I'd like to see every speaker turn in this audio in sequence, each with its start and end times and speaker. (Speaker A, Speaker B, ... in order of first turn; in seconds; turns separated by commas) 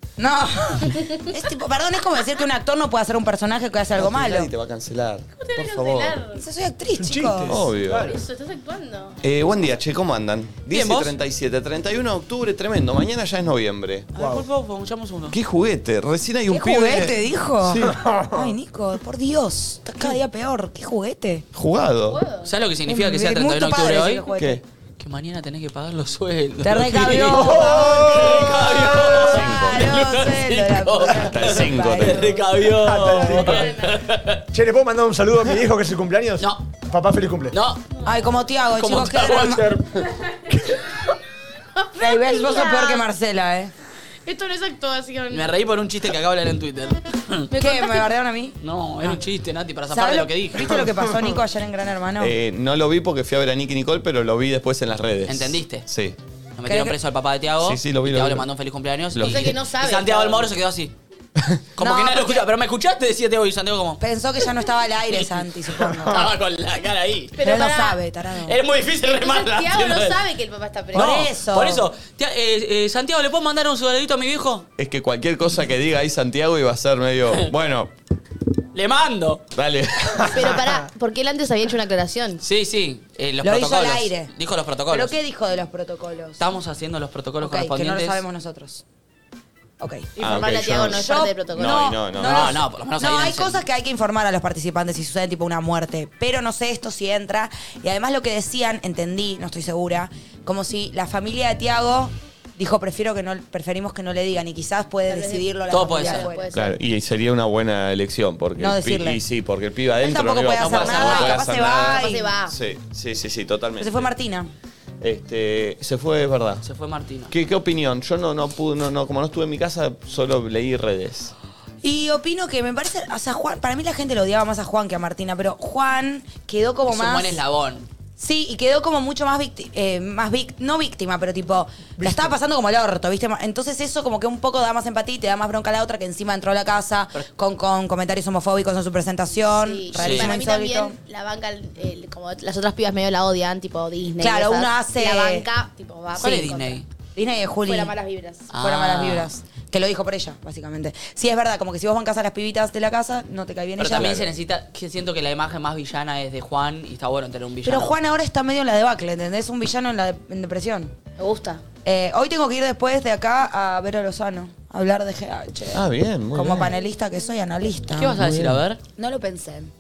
Speaker A: 0.2-4.5, Speaker B: 4.0-6.2, Speaker C: 5.4-6.4, Speaker A: 6.3-7.7, Speaker D: 7.0-8.2, Speaker B: 7.5-8.2, Speaker C: 8.0-9.2, Speaker B: 9.2-14.1, Speaker E: 10.7-11.1, Speaker E: 14.2-15.4, Speaker D: 14.2-14.5, Speaker B: 15.3-18.0, Speaker A: 16.5-21.5, Speaker D: 17.8-18.5, Speaker B: 21.5-22.2, Speaker C: 22.1-22.5, Speaker E: 22.4-24.2, Speaker A: 22.9-24.6, Speaker B: 24.3-24.6, Speaker E: 25.0-34.4, Speaker A: 26.6-32.4, Speaker D: 27.3-28.4, Speaker B: 29.2-29.9, Speaker B: 31.2-32.4, Speaker D: 32.7-33.9, Speaker C: 33.4-33.9, Speaker D: 34.5-37.5, Speaker E: 36.4-36.6, Speaker E: 37.5-37.9, Speaker A: 38.0-39.8, Speaker E: 38.8-40.1, Speaker C: 41.8-43.1, Speaker A: 42.0-43.7, Speaker C: 44.3-45.5, Speaker E: 45.3-47.5, Speaker C: 47.5-48.1, Speaker A: 47.5-49.2, Speaker E: 48.6-50.8, Speaker A: 49.9-52.4, Speaker B: 52.2-56.2, Speaker E: 55.2-55.9, Speaker E: 56.6-60.9, Speaker A: 56.7-57.0, Speaker B: 57.6-58.5, Speaker B: 59.1-59.6, Speaker C: 59.2-60.5, Speaker E: 61.8-64.0, Speaker A: 61.8-62.5, Speaker A: 64.0-66.3, Speaker E: 65.8-67.4, Speaker C: 67.4-68.0, Speaker A: 67.4-68.6, Speaker E: 68.5-70.2, Speaker C: 69.1-71.3, Speaker A: 70.9-71.9, Speaker E: 70.9-74.7, Speaker B: 74.8-77.9, Speaker E: 78.7-79.4, Speaker B: 79.5-80.6, Speaker C: 80.3-82.4, Speaker E: 82.4-85.1, Speaker A: 83.4-84.3, Speaker A: 84.9-86.4, Speaker E: 86.4-88.2, Speaker A: 87.4-88.8, Speaker A: 89.8-90.1, Speaker C: 90.2-92.0, Speaker B: 90.2-92.6, Speaker A: 90.9-106.5, Speaker E: 92.1-93.6, Speaker C: 105.1-106.8, Speaker E: 105.7-106.3, Speaker B: 106.5-114.1, Speaker A: 108.6-109.2, Speaker A: 110.0-112.3, Speaker E: 110.6-111.4, Speaker C: 111.7-112.5, Speaker A: 113.8-114.5, Speaker B: 115.0-116.6, Speaker E: 116.6-117.3, Speaker B: 117.3-121.3, Speaker A: 121.8-127.4, Speaker E: 126.9-127.9, Speaker A: 128.2-141.0, Speaker D: 132.0-132.3, Speaker C: 139.6-146.8, Speaker E: 139.9-140.3, Speaker A: 144.2-145.5, Speaker E: 146.2-146.9, Speaker A: 147.2-147.9, Speaker C: 147.7-148.5, Speaker E: 148.5-149.3, Speaker A: 148.5-154.3, Speaker E: 153.8-158.0, Speaker A: 157.6-160.9, Speaker C: 161.2-161.6, Speaker A: 161.8-168.2, Speaker B: 165.7-166.7, Speaker E: 167.9-168.8, Speaker B: 168.2-168.6, Speaker A: 169.0-169.7